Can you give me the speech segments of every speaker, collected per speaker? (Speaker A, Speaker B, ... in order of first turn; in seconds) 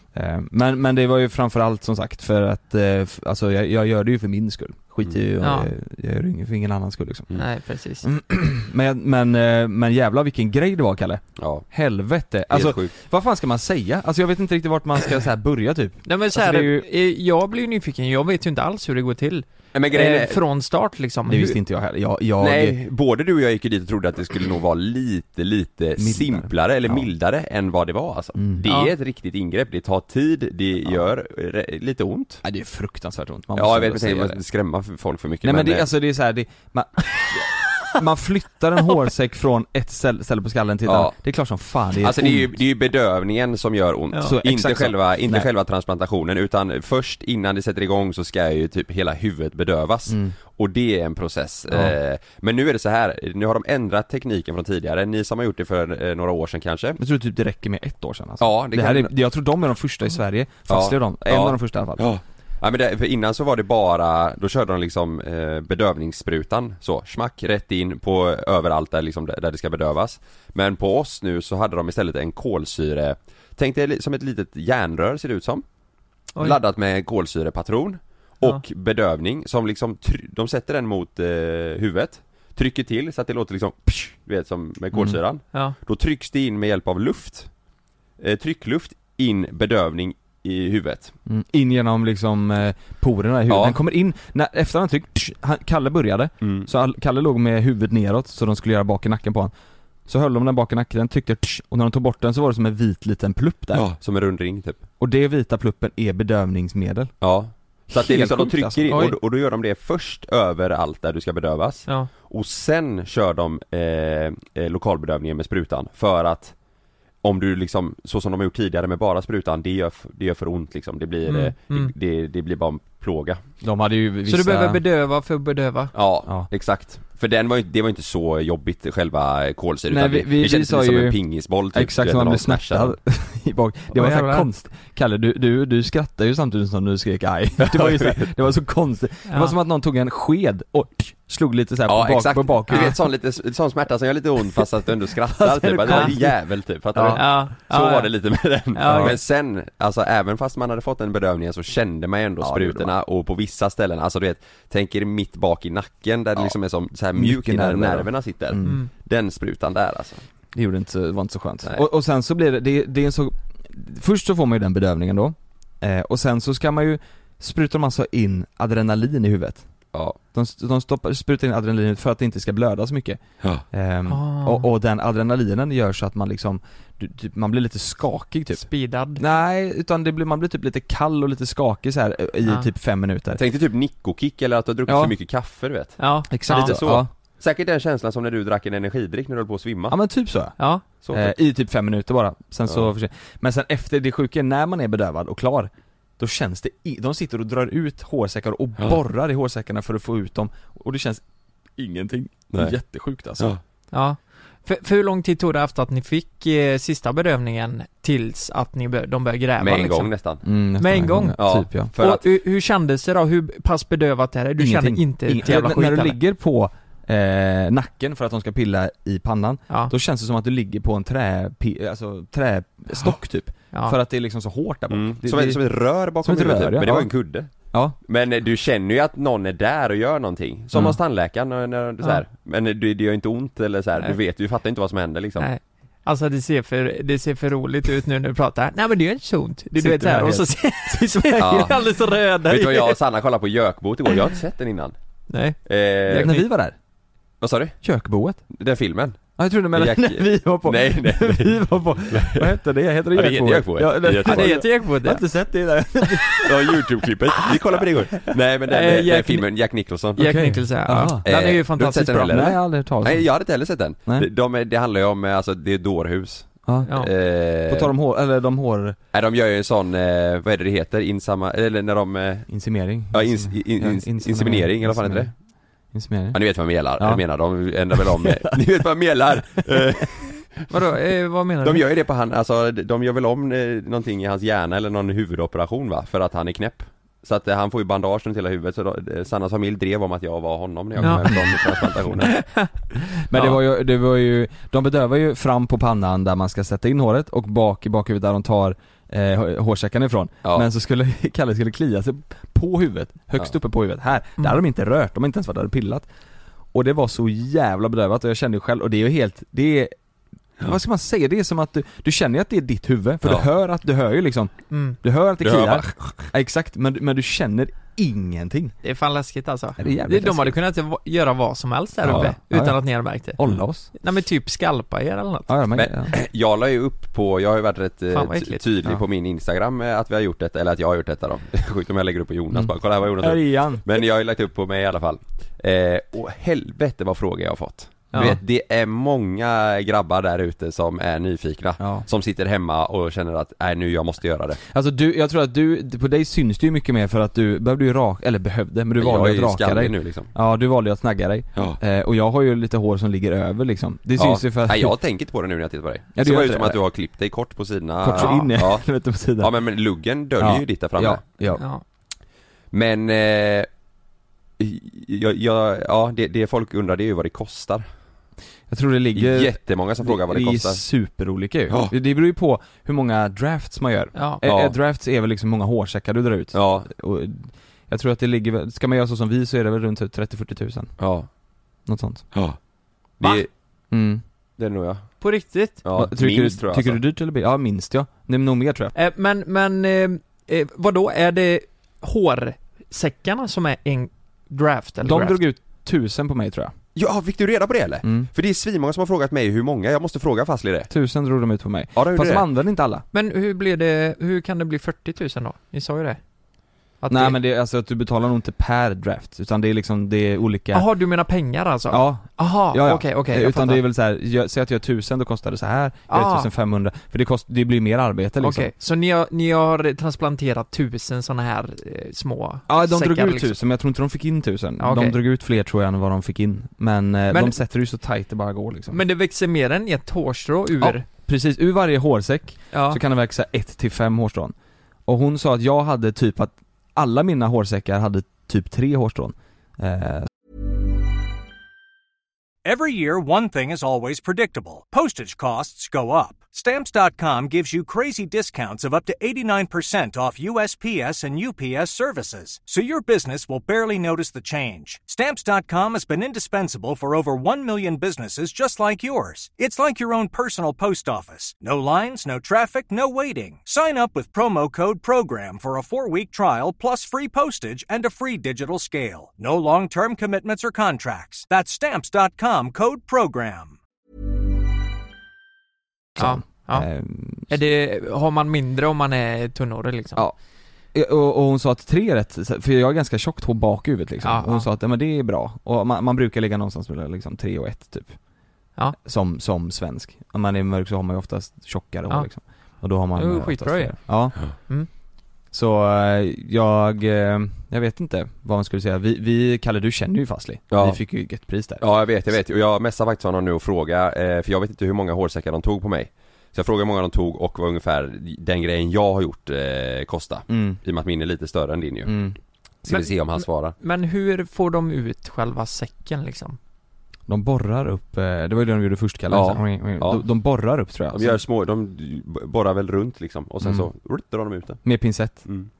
Speaker A: 0.1-7.3, 8.0-16.9, 21.2-22.8, 26.0-27.1, 28.4-28.6, 32.4-34.4, 35.4-42.5, 44.2-45.5, 50.1-50.3, 51.7-52.0, 57.0-62.1, 84.9-85.2, 91.3-99.5, 100.1-103.8, 105.0-107.1, 107.9-109.0, 123.6-124.8, 129.9-131.2, 131.7-143.0, 145.4-146.4, 146.9-147.7, 148.8-149.2, 152.4-152.9, 157.1-158.8, 160.5-169.7, 170.3-173.2, 173.7-183.4, 184.9-185.1, 186.3-187.1, 189.9-190.6, 191.1-201.2, 201.8-203.5, 210.4-211.9, 214.6-225.6, 226.2-227.1, 230.7-231.0, 239.8-240.5, 246.2-246.7, 247.8-248.4, 249.4-256.8, 260.2-261.2, 262.3-263.3, 267.7-269.0, 272.5-275.3, 275.9-276.4, 276.9-277.2, 277.9-278.6, 279.5-279.9, 291.0-291.4, 293.3-306.1, 306.7-309.9, 310.6-318.7, 319.8-320.6, 322.0-323.9, 325.5-326.1, 332.5-333.8, 341.8-342.0, 344.7-354.9, 356.1-356.8, 358.0-359.5, 360.4-361.6, 368.7-380.9, 381.9-382.3, 383.9-384.2, 385.9-388.9, 395.0-396.7, 398.0-398.3, 400.9-403.0, 407.1-410.9, 411.9-418.7, 422.7-429.0, 430.8-434.5, 435.1-440.3, 476.1-477.5, 480.9-488.2, 489.0-494.4, 495.5-502.4, 510.5-510.8, 512.0-512.4, 517.3-521.4, 523.6-523.9, 524.8-525.4
Speaker B: 5.4-5.7, 7.3-8.1, 16.0-21.6, 108.9-109.2, 121.2-121.9, 124.3-125.9, 133.9-134.5, 139.3-139.6, 142.7-142.9, 145.9-146.1, 147.1-148.1, 148.7-149.2, 158.6-158.9, 174.1-174.7, 178.6-179.2, 186.0-186.8, 190.6-190.8, 203.9-210.1, 210.8-211.4, 212.0-216.2, 235.4-243.0, 245.3-245.6, 246.1-246.4, 254.2-255.2, 258.7-259.5, 260.1-262.4, 280.7-281.8, 291.0-291.6, 292.2-292.7, 314.7-315.0, 318.8-323.4, 323.9-325.5, 328.1-328.6, 338.1-338.4, 358.2-358.5, 361.6-361.8, 374.1-374.4, 385.2-385.8, 388.9-395.4, 403.1-406.2, 407.0-407.4, 410.7-413.8, 416.1-416.5, 418.4-423.6, 424.8-425.2, 427.3-427.6, 428.9-431.0, 432.7-433.0, 476.2-476.9, 477.5-480.2, 484.2-484.7, 493.1-494.9, 512.9-516.6
Speaker C: 11.4-11.7, 12.5-12.9, 19.7-20.4, 22.4-32.4, 33.5-35.9, 40.9-41.1, 42.0-57.0, 58.4-59.1, 60.7-75.6, 76.4-87.5, 88.2-91.1, 93.5-93.8, 96.4-96.7, 103.7-104.8, 107.2-116.5, 117.2-123.4, 125.9-132.9, 137.6-138.3, 141.9-160.2, 183.4-189.9, 191.0-191.3, 209.6-210.4, 211.4-212.2, 224.9-235.5, 241.4-241.8, 242.5-244.9, 245.7-246.4, 247.4-247.8, 248.5-252.6, 253.1-254.6, 256.4-260.3, 261.2-267.9, 269.1-272.5, 273.1-275.3, 276.3-280.7, 281.6-292.3, 315.4-316.3, 322.1-322.3, 325.7-344.6, 349.0-350.3, 354.2-358.8, 359.4-361.2, 362.7-363.7, 364.6-367.8, 369.1-370.8, 374.4-374.7, 376.5-376.9, 381.0-381.3, 383.2-383.5, 384.6-385.1, 385.8-387.0, 396.9-400.9, 401.9-402.4, 500.7-501.0, 501.8-512.1, 512.8-513.7, 519.3-520.2, 521.1-524.8
Speaker D: 442.6-473.8